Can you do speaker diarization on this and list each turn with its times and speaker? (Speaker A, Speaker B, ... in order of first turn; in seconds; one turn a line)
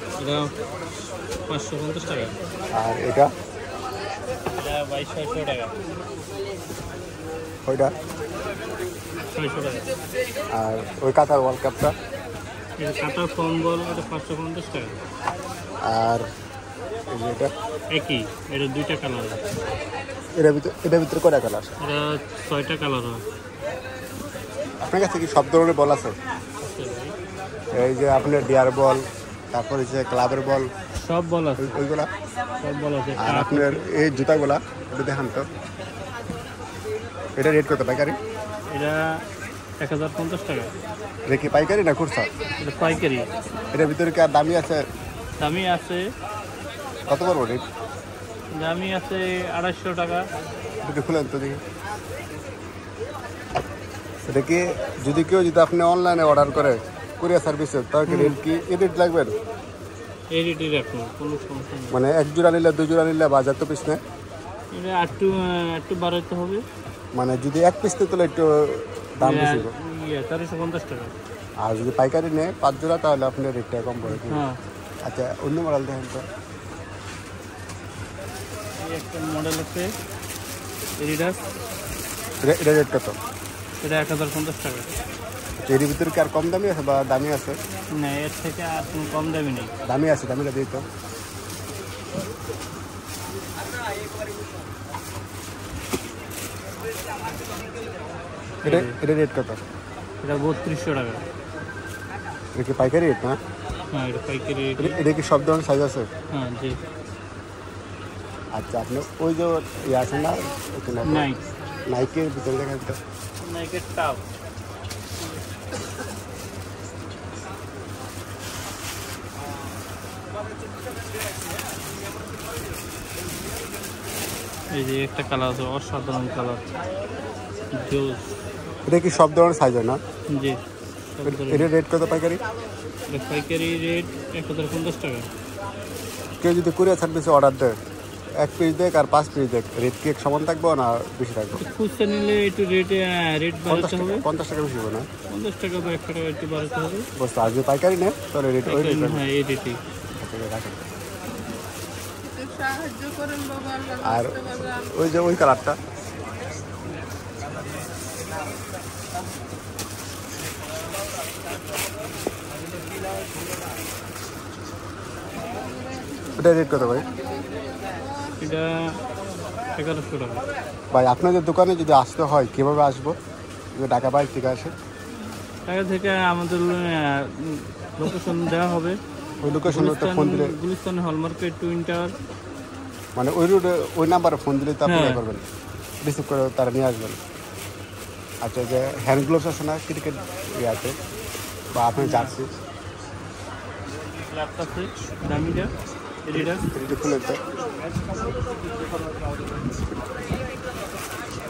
Speaker A: 0.2-0.5
Speaker A: 1.5-2.4
Speaker B: 2.7-3.3
Speaker A: 4.6-5.7
Speaker B: 7.7-7.9
Speaker A: 9.3-9.9
Speaker B: 10.5-11.9
Speaker A: 12.8-14.9
Speaker B: 15.8-16.2
Speaker B: 17.1-17.5
Speaker A: 17.9-19.4
Speaker B: 20.4-21.7
Speaker A: 21.8-23.2
Speaker B: 24.8-26.2
Speaker A: 26.6-27.1
Speaker B: 27.7-30.7
Speaker A: 31.0-31.8
Speaker B: 31.6-32.1
Speaker A: 32.6-33.8
Speaker B: 33.2-35.5
Speaker B: 37.4-38.2
Speaker A: 38.7-39.2
Speaker A: 39.8-40.7
Speaker B: 41.3-42.3
Speaker A: 42.6-43.3
Speaker B: 43.7-44.8
Speaker A: 45.4-46.0
Speaker B: 47.1-47.6
Speaker A: 48.6-50.3
Speaker B: 50.8-51.6
Speaker B: 54.3-59.3
Speaker A: 58.1-58.4
Speaker A: 60.3-62.0
Speaker B: 61.9-64.0
Speaker A: 64.7-66.6
Speaker B: 67.1-69.7
Speaker A: 69.2-71.1
Speaker B: 71.6-74.5
Speaker A: 74.1-74.6
Speaker B: 75.0-76.2
Speaker A: 78.8-79.9
Speaker A: 81.0-81.4
Speaker B: 82.4-83.2
Speaker A: 83.8-84.9
Speaker B: 85.6-87.6
Speaker A: 87.9-89.7
Speaker B: 89.8-90.8
Speaker A: 98.6-99.0
Speaker B: 98.6-99.6
Speaker A: 100.2-101.2
Speaker B: 102.5-103.4
Speaker A: 103.9-105.0
Speaker B: 104.8-106.1
Speaker A: 106.3-106.8
Speaker B: 108.5-111.3
Speaker A: 111.0-111.4
Speaker B: 111.9-113.0
Speaker A: 113.4-114.2
Speaker A: 124.7-126.6
Speaker A: 127.7-128.3
Speaker B: 128.9-130.0
Speaker A: 130.3-130.6
Speaker A: 131.1-131.7
Speaker B: 131.2-132.4
Speaker A: 133.1-135.3
Speaker B: 136.4-137.8
Speaker B: 138.4-141.6
Speaker A: 141.6-144.2
Speaker B: 143.7-145.1
Speaker A: 145.3-147.1
Speaker B: 147.2-149.2
Speaker A: 148.7-149.8
Speaker B: 150.2-150.8
Speaker C: 152.4-154.0
Speaker B: 154.0-155.8
Speaker C: 165.9-166.2
Speaker B: 166.3-167.2
Speaker C: 167.4-168.0
Speaker A: 168.4-169.0
Speaker A: 169.7-170.4
Speaker B: 170.9-173.2
Speaker B: 173.8-174.7
Speaker A: 175.7-179.0
Speaker B: 179.4-180.5
Speaker A: 179.7-182.1
Speaker B: 183.2-185.4
Speaker A: 184.9-185.2
Speaker B: 186.0-187.2
Speaker B: 188.4-190.9
Speaker B: 191.8-192.5
Speaker A: 191.9-192.3
Speaker A: 194.0-195.7
Speaker A: 196.2-196.7
Speaker B: 196.3-197.4